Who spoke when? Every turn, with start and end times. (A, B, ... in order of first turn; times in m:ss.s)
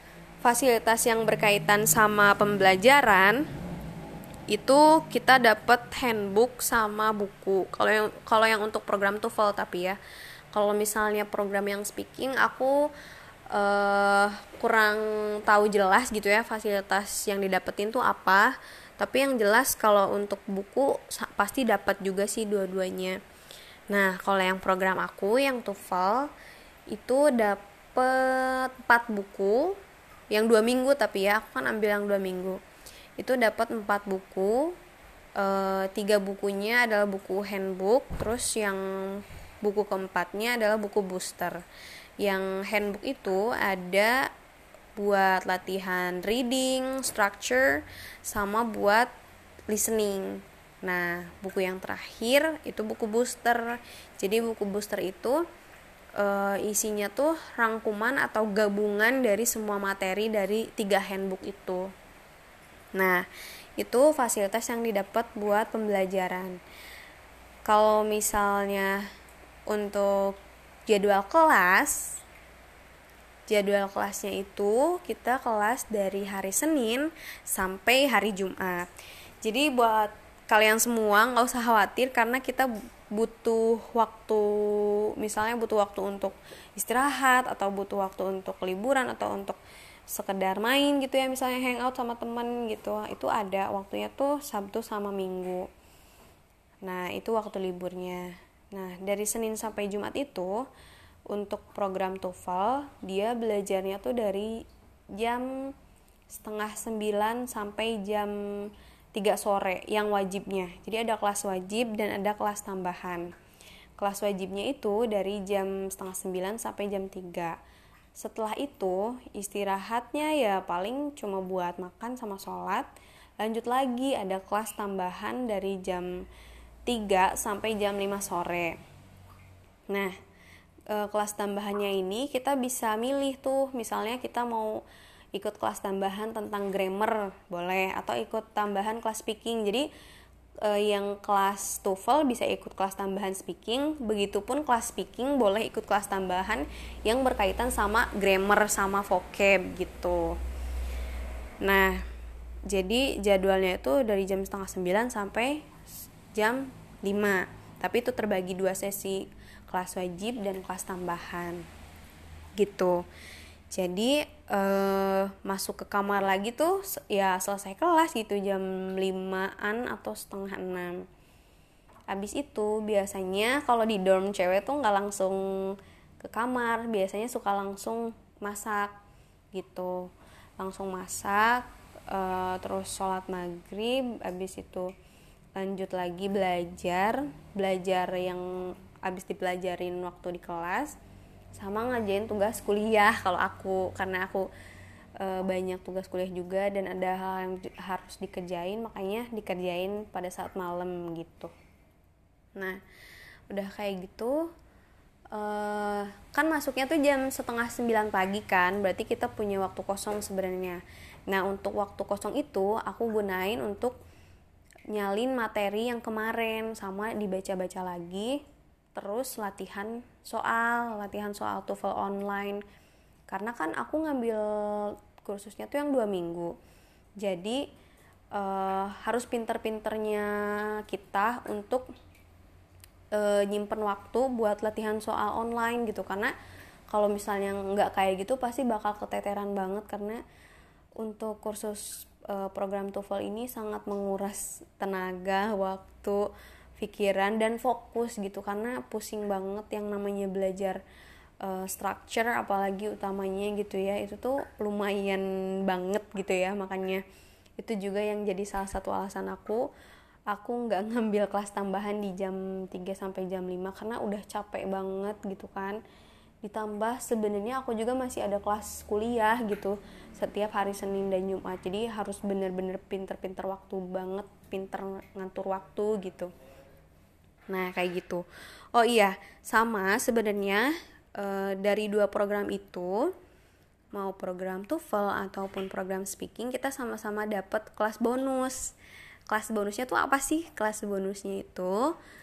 0:00.4-0:03.5 A
0:04.5-0:10.0 A
0:10.5-0:12.9 A
0:13.5-0:23.2 A
0:23.9-0:26.3 A
0:26.9-0:29.8 A
0:30.3-0:32.6 A
0:33.2-0:34.8 A
0:35.4-0:41.6 A
0:42.2-0:44.3 A
0:45.0-0:49.1 A
0:49.7-0:55.4 A
0:56.2-1:01.9 A
1:03.0-1:03.3 A
1:03.8-1:06.6 A
1:07.7-1:09.0 A
1:09.7-1:10.4 A
1:10.9-1:12.2 A
1:13.5-1:18.9 A
1:19.4-1:29.6 A
1:30.1-1:35.7 A
1:36.8-1:40.7 A
1:41.3-1:44.6 A
1:45.1-1:45.7 A
1:46.3-1:53.3 A
1:54.0-1:57.6 A
1:58.2-2:02.9 A
2:03.4-2:06.3 A
2:06.9-2:08.8 A
2:09.9-2:10.2 A
2:10.9-2:19.9 A
2:20.6-2:30.4 A
2:31.6-2:32.0 A
2:32.7-2:35.7 A
2:36.3-2:41.7 A
2:42.6-2:43.0 A
2:43.7-2:51.1 A
2:52.1-2:58.9 A
2:59.5-3:04.9 A
3:05.6-3:11.0 A
3:11.6-3:14.5 A
3:15.2-3:21.5 A
3:23.5-3:24.5 A
3:25.3-3:34.0 A
3:34.9-3:38.4 A
3:39.0-3:42.6 A
3:43.3-3:46.6 A
3:47.2-3:47.6 A
3:48.3-3:51.9 A
3:53.1-3:56.3 A
3:56.9-4:00.2 A
4:01.0-4:10.8 A
4:11.4-4:17.0 A
4:17.6-4:19.7 A
4:20.3-4:25.8 A
4:26.4-4:36.3 A
4:37.5-4:43.1 A
4:43.9-4:48.8 A
4:49.3-4:52.0 A